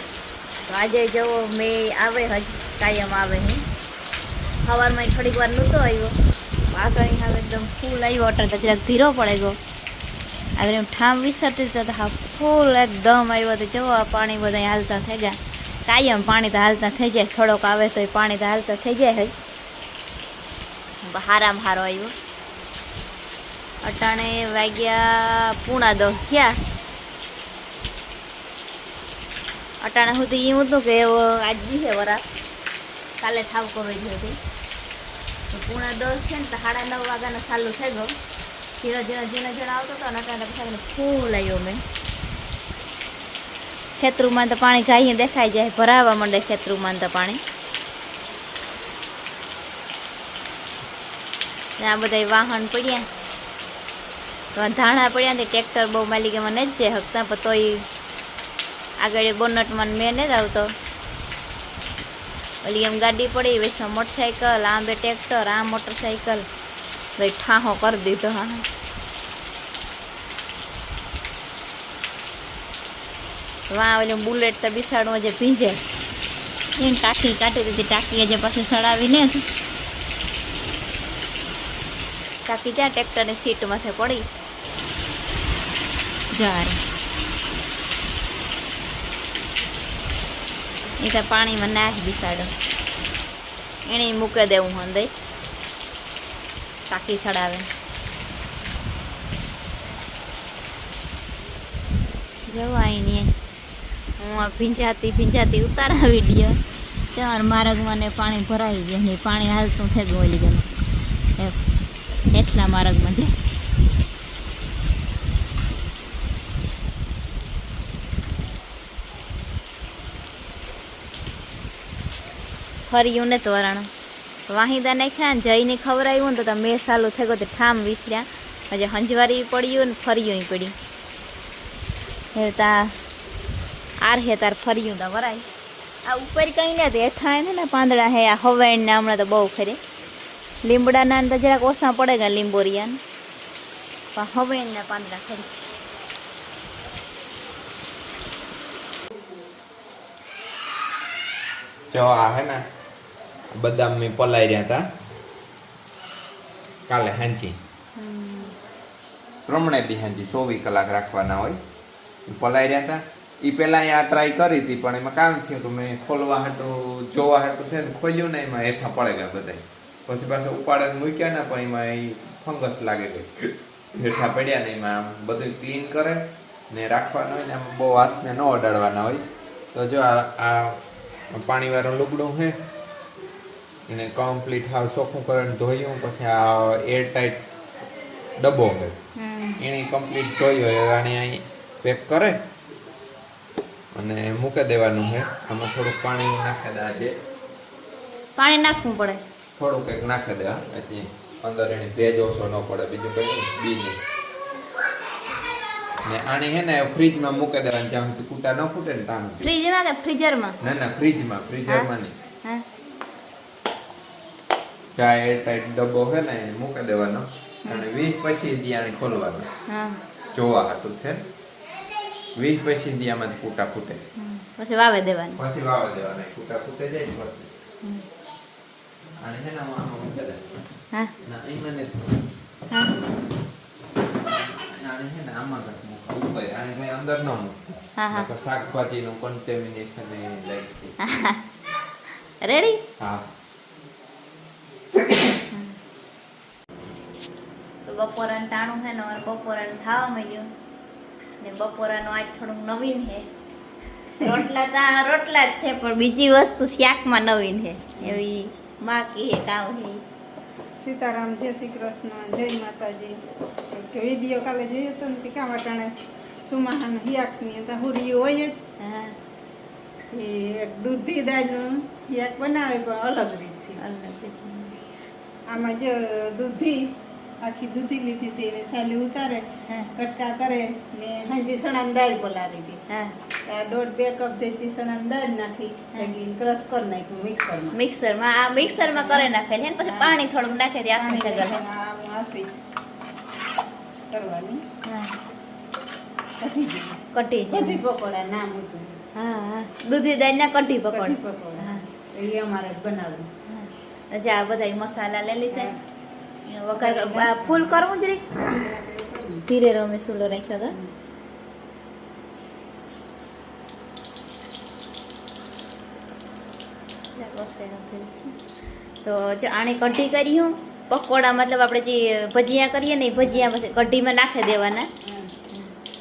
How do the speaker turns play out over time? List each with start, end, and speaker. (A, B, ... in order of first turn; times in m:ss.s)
0:00.6-0:03.6 A
0:04.6-0:06.2 A
0:06.7-0:09.6 A
0:10.6-0:19.4 A
0:21.0-0:22.1 A
0:23.8-0:26.6 A
0:29.8-0:32.2 A
0:33.2-0:34.4 A
0:35.5-0:38.1 A
0:38.8-0:41.8 A
0:44.0-0:47.4 A
0:51.8-0:53.0 A
0:54.6-0:57.8 A
0:59.0-1:00.7 A
1:02.6-1:06.4 A
1:07.2-1:08.6 A
1:13.7-1:15.8 A
1:16.8-1:19.4 A
1:22.5-1:24.2 A
1:26.3-1:26.8 A
1:31.0-1:32.5 A
1:33.9-1:35.1 A
1:36.9-1:37.7 A
1:42.5-1:43.3 A
1:44.2-1:46.6 A
1:47.1-1:50.7 A
1:52.3-1:53.4 A
2:02.9-2:03.9 A
2:04.5-2:10.8 A
2:12.4-2:12.9 A
2:14.0-2:15.5 A
2:16.0-2:19.8 A
2:20.6-2:23.0 A
2:24.2-2:25.5 A
2:31.9-2:32.6 B
2:33.5-2:34.9 B
2:36.9-2:37.6 B
2:38.0-2:38.6 A
2:39.5-2:41.6 B
2:42.3-3:00.8 B
3:01.3-3:02.6 B
3:03.9-3:07.4 B
3:08.4-3:09.0 B
3:09.2-3:09.6 A
3:09.6-3:12.4 B
3:13.9-3:17.2 B
3:18.4-3:19.2 A
3:19.6-3:24.0 B
3:26.0-3:29.5 B
3:29.4-3:30.6 A
3:30.6-3:32.2 B
3:35.0-3:39.5 B
3:39.7-3:40.0 A
3:40.3-3:41.2 B
3:42.4-3:44.0 B
3:44.2-3:45.4 A
3:45.4-3:47.5 B
3:49.2-3:50.6 B
3:51.2-3:52.2 B
3:52.7-3:53.0 A
3:54.6-4:01.0 B
3:58.0-3:58.3 A
4:01.0-4:01.4 A
4:02.4-4:02.8 A
4:03.0-4:03.3 B
4:05.0-4:05.3 B
4:05.5-4:05.8 A
4:07.9-4:10.5 A
4:11.4-4:13.3 A
4:14.2-4:20.0 A
4:20.8-4:23.2 C
4:23.7-4:25.9 C
4:26.5-4:28.6 C
4:28.8-4:29.2 A
4:30.1-4:33.8 C
4:33.8-4:34.8 A
4:35.5-4:42.8 C
4:42.9-4:43.2 A
4:43.5-4:47.8 C
4:47.7-4:51.6 A
4:48.6-4:50.2 C
4:50.9-4:52.6 C
4:54.1-4:54.6 C
4:54.8-4:55.2 A
4:56.4-4:57.0 C
4:57.1-4:57.8 A
4:57.5-4:59.0 C
4:59.2-5:01.8 A
5:00.9-5:03.3 C
5:03.5-5:05.7 A
5:05.5-5:05.8 C
5:06.5-5:08.4 A
5:06.8-5:07.8 C
5:08.4-5:09.5 C
5:09.5-5:10.8 A
5:17.1-5:18.4 A
5:19.0-5:24.9 A
5:25.0-5:25.3 C